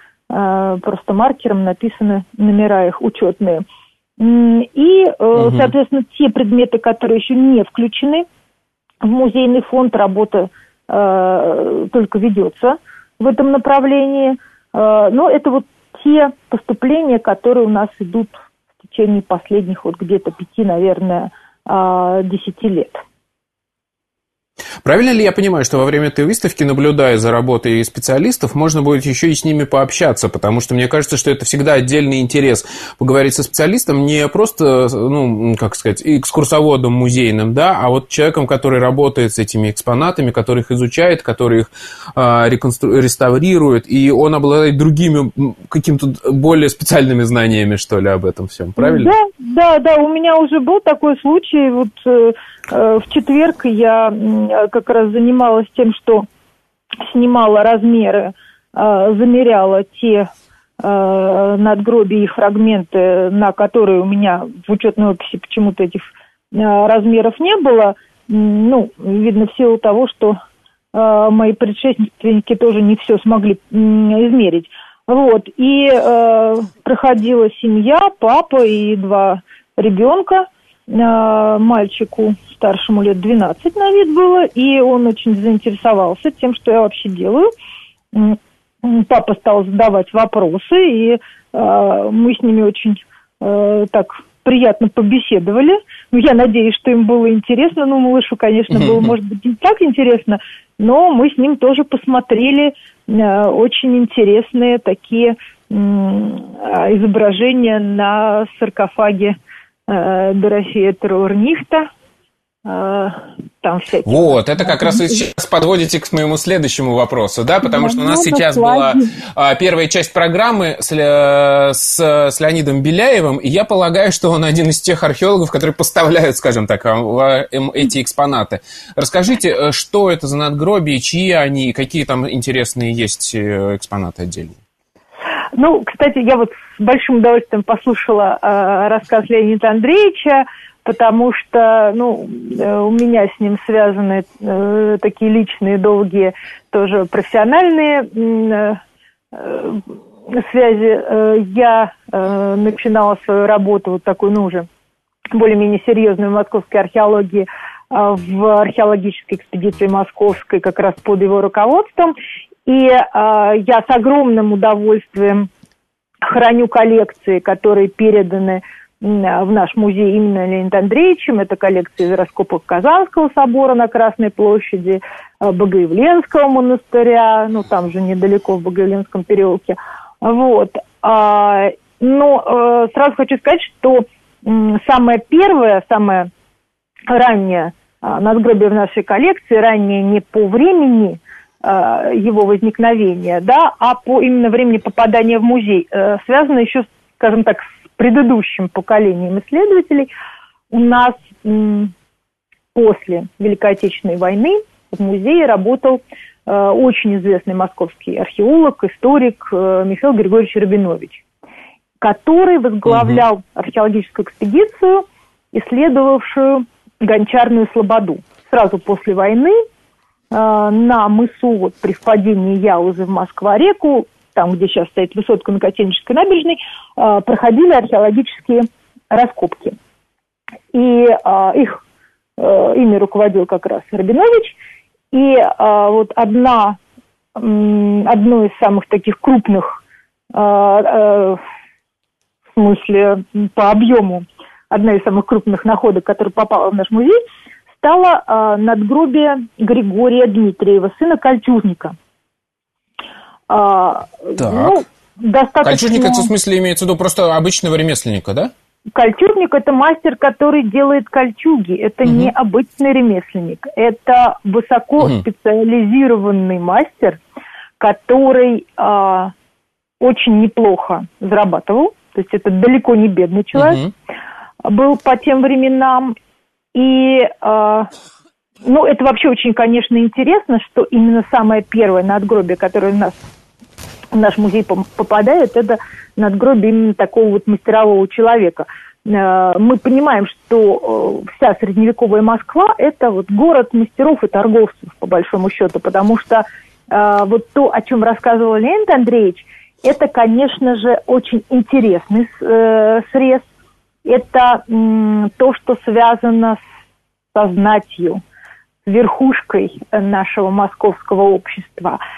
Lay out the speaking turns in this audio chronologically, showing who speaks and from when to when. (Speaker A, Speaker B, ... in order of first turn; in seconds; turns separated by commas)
Speaker A: 0.3-3.6, Speaker A: 4.2-8.3, Speaker B: 5.4-5.7, Speaker A: 9.0-23.0, Speaker B: 24.8-49.1, Speaker A: 48.8-56.3, Speaker A: 57.0-60.3, Speaker A: 60.8-70.4, Speaker A: 70.9-87.5, Speaker A: 88.1-109.4, Speaker B: 98.7-99.1, Speaker A: 109.9-111.9, Speaker A: 112.7-115.2, Speaker B: 114.1-134.6, Speaker A: 117.6-119.1, Speaker A: 135.6-148.8, Speaker A: 149.3-154.7, Speaker A: 155.3-162.2, Speaker A: 162.7-165.5, Speaker A: 166.2-186.3, Speaker A: 187.1-200.1, Speaker A: 200.7-201.9, Speaker A: 202.7-211.2, Speaker A: 212.0-219.6, Speaker B: 212.9-213.2, Speaker A: 220.3-229.8, Speaker A: 230.7-231.8, Speaker A: 232.4-234.6, Speaker A: 235.1-236.8, Speaker A: 237.4-239.8, Speaker A: 240.3-241.4, Speaker A: 242.6-247.2, Speaker A: 247.8-251.9, Speaker A: 253.5-256.3, Speaker B: 254.4-254.8, Speaker B: 255.6-258.5, Speaker A: 258.9-267.2, Speaker B: 262.1-262.3, Speaker A: 267.8-269.3, Speaker A: 270.0-273.8, Speaker B: 273.6-273.9, Speaker A: 274.6-276.1, Speaker A: 276.7-277.9, Speaker A: 278.6-283.2, Speaker A: 284.1-303.5, Speaker A: 304.1-306.6, Speaker A: 307.3-308.2, Speaker A: 308.9-312.0